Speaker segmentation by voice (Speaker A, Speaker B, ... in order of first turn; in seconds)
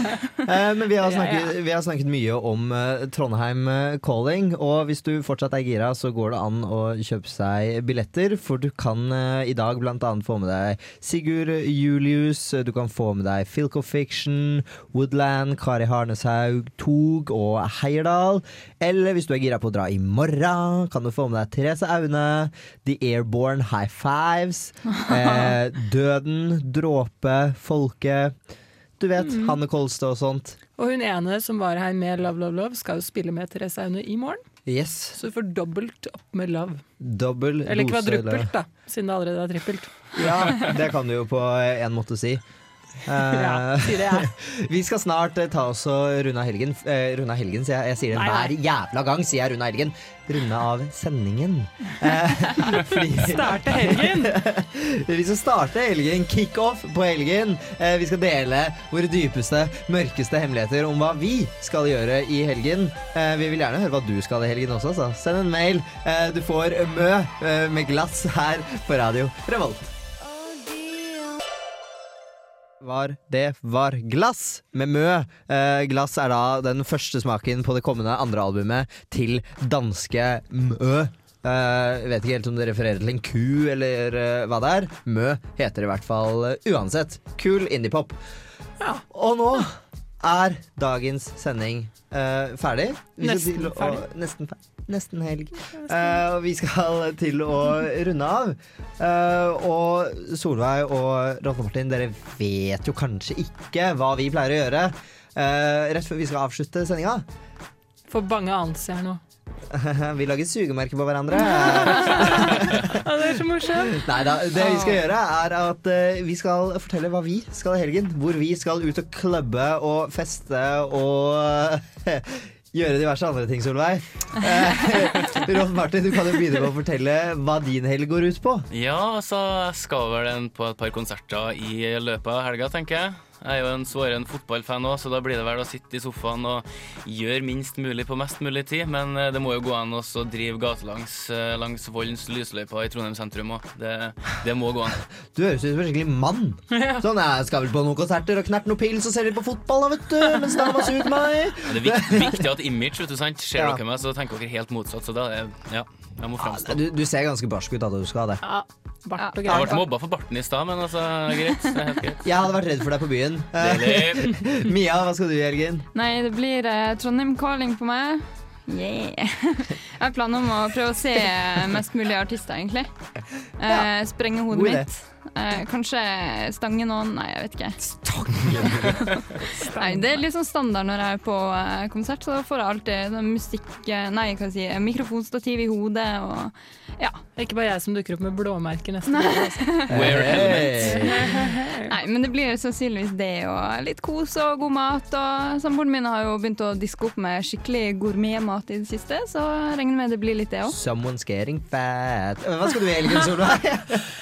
Speaker A: 0.5-28.4, 29.0-30.6, 34.7-35.2, 37.0-38.5, 40.1-42.4, 43.0-69.9, 72.8-88.2, 89.1-107.3, 109.7-113.0, 113.8-128.7, 145.3-152.4, 156.4-158.4, 159.5-159.8, 162.2-165.9, 174.5-174.9, 177.8-179.0, 189.9-191.3, 200.7-204.0
Speaker B: 1.0-1.5, 30.8-34.4, 35.1-36.8, 37.6-40.7, 43.3-44.3, 48.1-48.5, 53.2-54.3, 93.2-94.1, 108.1-109.2, 111.5-114.1, 146.7-147.0, 158.4-159.7, 179.5-180.2, 187.3-189.7, 191.1-191.8
Speaker C: 128.7-145.0, 151.7-156.8, 159.5-162.2, 163.6-164.4, 189.9-191.0
Speaker D: 159.2-159.6, 165.9-172.9, 173.6-177.8, 179.8-187.2, 189.1-189.9, 191.9-200.8